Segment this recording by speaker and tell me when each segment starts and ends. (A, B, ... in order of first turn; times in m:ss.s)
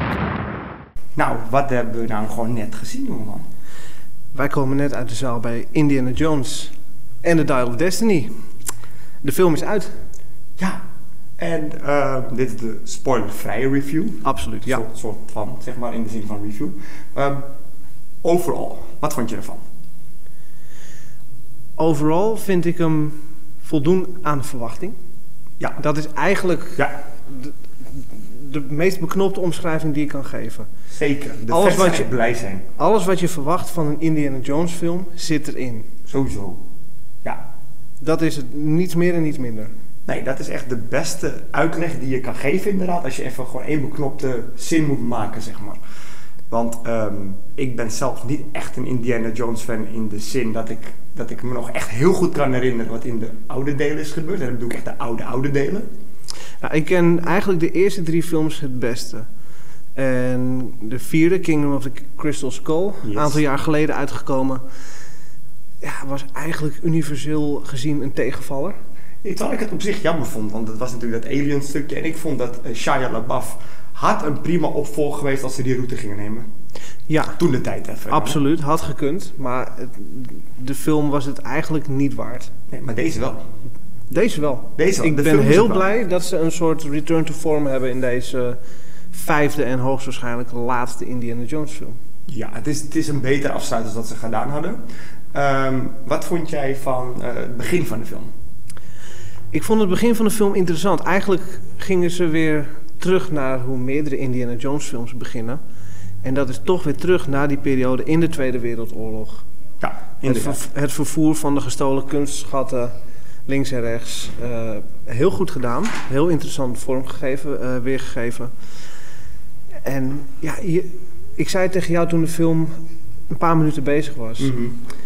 0:01.2-0:03.4 A
0:04.3-0:08.3 B
0:09.2-0:09.9 B
0:11.4-0:17.4 A
0:14.2-0:14.8 B
0:18.2-0:19.6 A
0:21.8-0:25.0 B
0:25.8-0:30.7 B
0:30.9-0:32.6 A
0:31.5-0:32.2 B
0:32.8-0:35.9 B
0:36.1-0:36.6 A
0:38.0-0:39.7 B
0:40.1-0:45.8 A
0:46.5-0:55.9 A
0:56.6-0:59.3 B
1:00.0-1:04.6 B
1:03.0-1:03.4 A
1:05.8-1:08.8 B
1:09.2-1:16.5 A
1:17.1-1:17.4 B
1:17.4-1:18.4 A
1:18.1-1:22.5 B
1:22.7-1:23.4 A
1:24.1-1:28.6 B
1:24.8-1:25.9 A
1:29.1-1:32.0 B
1:32.3-1:34.8 A
1:35.3-1:38.3 A
1:39.5-1:45.6 B
1:46.2-1:49.4 B
1:49.8-1:50.6 A
1:50.3-1:52.9 B
1:53.5-1:58.5 B
1:59.8-2:02.7 B
2:03.3-2:04.5 B
2:04.4-2:04.8 A